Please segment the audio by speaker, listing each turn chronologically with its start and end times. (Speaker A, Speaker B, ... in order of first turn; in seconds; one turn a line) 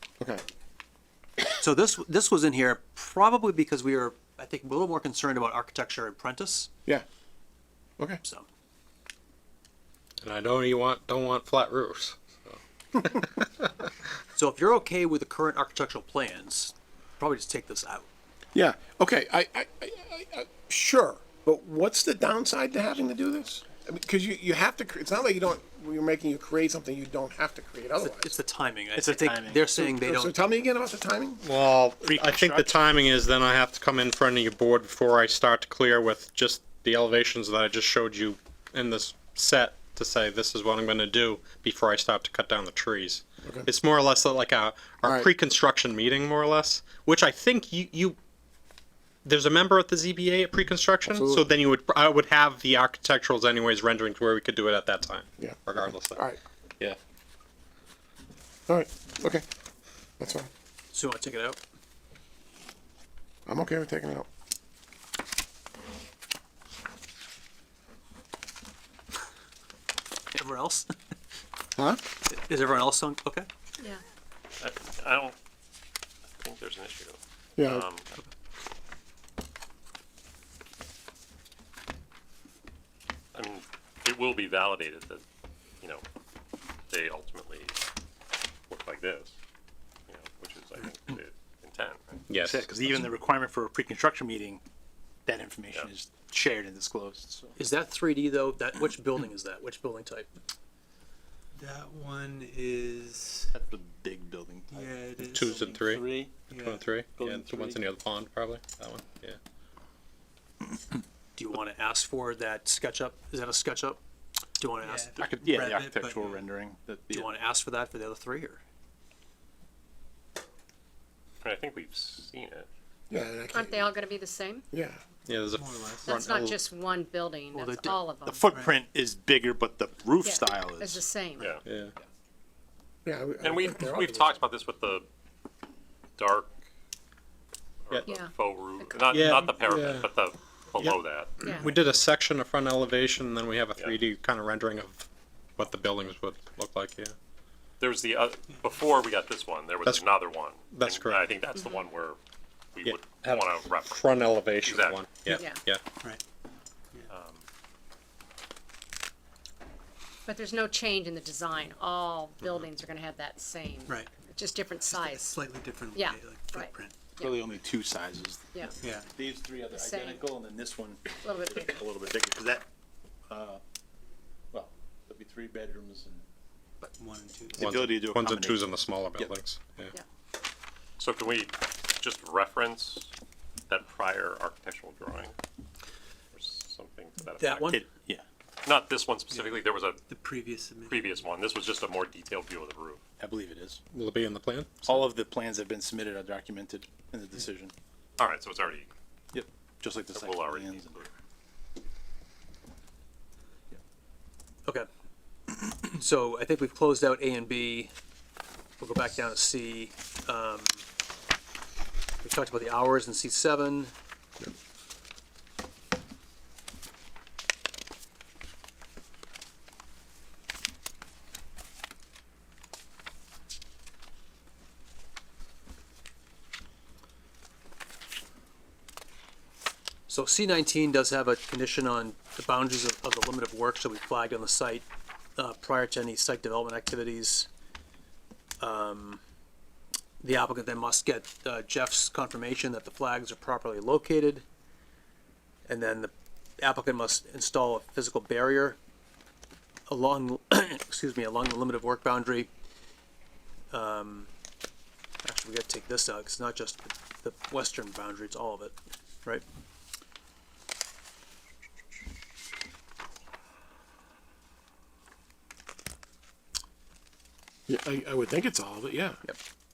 Speaker A: 1.6-6.7
Speaker B: 10.2-13.8
Speaker A: 14.3-18.1
Speaker C: 18.5-28.3
Speaker A: 27.9-30.4
Speaker D: 28.9-29.6
Speaker C: 29.8-31.4
Speaker B: 31.4-48.2
Speaker D: 32.0-33.0
Speaker C: 45.0-45.3
Speaker B: 49.2-56.2
Speaker C: 55.4-56.4
Speaker C: 58.7-59.4
Speaker C: 60.2-60.5
Speaker A: 60.9-61.6
Speaker C: 63.5-64.3
Speaker A: 70.3-70.9
Speaker C: 71.8-72.0
Speaker A: 72.2-73.5
Speaker E: 74.6-75.4
Speaker E: 76.3-78.1
Speaker C: 77.6-77.8
Speaker E: 83.3-85.2
Speaker E: 86.9-87.8
Speaker E: 88.7-89.3
Speaker E: 90.1-92.2
Speaker B: 92.3-92.7
Speaker D: 92.4-94.6
Speaker D: 95.2-97.5
Speaker A: 97.6-100.3
Speaker F: 101.5-103.5
Speaker D: 103.5-106.4
Speaker F: 104.7-106.8
Speaker B: 105.2-109.4
Speaker D: 107.2-107.8
Speaker A: 111.3-114.0
Speaker A: 114.6-115.2
Speaker F: 114.8-116.5
Speaker D: 115.2-117.3
Speaker A: 117.1-118.6
Speaker E: 121.4-122.7
Speaker C: 123.1-124.0
Speaker G: 123.5-124.7
Speaker C: 124.7-125.0
Speaker B: 125.3-126.6
Speaker F: 125.5-126.1
Speaker G: 126.0-128.5
Speaker A: 127.5-128.0
Speaker D: 128.2-131.0
Speaker F: 128.5-128.8
Speaker G: 130.2-131.6
Speaker E: 131.4-131.6
Speaker B: 131.6-131.9
Speaker C: 133.0-134.3
Speaker E: 133.4-135.1
Speaker E: 136.2-136.5
Speaker E: 137.8-141.5
Speaker G: 138.0-139.1
Speaker B: 139.1-140.1
Speaker B: 140.8-147.1
Speaker G: 141.4-141.7
Speaker E: 147.8-152.2
Speaker B: 150.7-151.2
Speaker G: 151.6-151.8
Speaker E: 152.7-155.1
Speaker B: 152.8-155.8
Speaker G: 155.2-155.6
Speaker E: 157.1-157.4
Speaker G: 160.2-165.4
Speaker F: 164.9-167.0
Speaker G: 165.9-167.4
Speaker D: 167.2-172.7
Speaker F: 168.8-169.1
Speaker G: 169.7-170.3
Speaker G: 171.2-171.8
Speaker D: 173.3-173.6
Speaker D: 174.5-176.2
Speaker F: 176.8-177.8
Speaker B: 177.6-179.9
Speaker D: 177.6-179.3
Speaker E: 181.0-183.1
Speaker E: 183.7-185.3
Speaker E: 186.3-187.9
Speaker A: 187.4-187.8
Speaker D: 187.7-188.2
Speaker E: 188.6-190.0
Speaker F: 189.3-191.2
Speaker E: 190.8-193.0
Speaker D: 193.2-193.8
Speaker B: 193.9-195.1
Speaker D: 194.8-197.7
Speaker E: 198.2-198.9
Speaker D: 199.3-201.1
Speaker E: 200.1-201.1
Speaker A: 205.8-207.9
Speaker A: 208.8-210.8
Speaker A: 212.2-213.9
Speaker A: 230.1-237.5
Speaker A: 238.6-239.2
Speaker A: 240.2-244.4
Speaker A: 245.7-248.8
Speaker A: 249.9-252.5
Speaker A: 253.7-254.3
Speaker A: 255.2-259.4
Speaker C: 267.7-269.2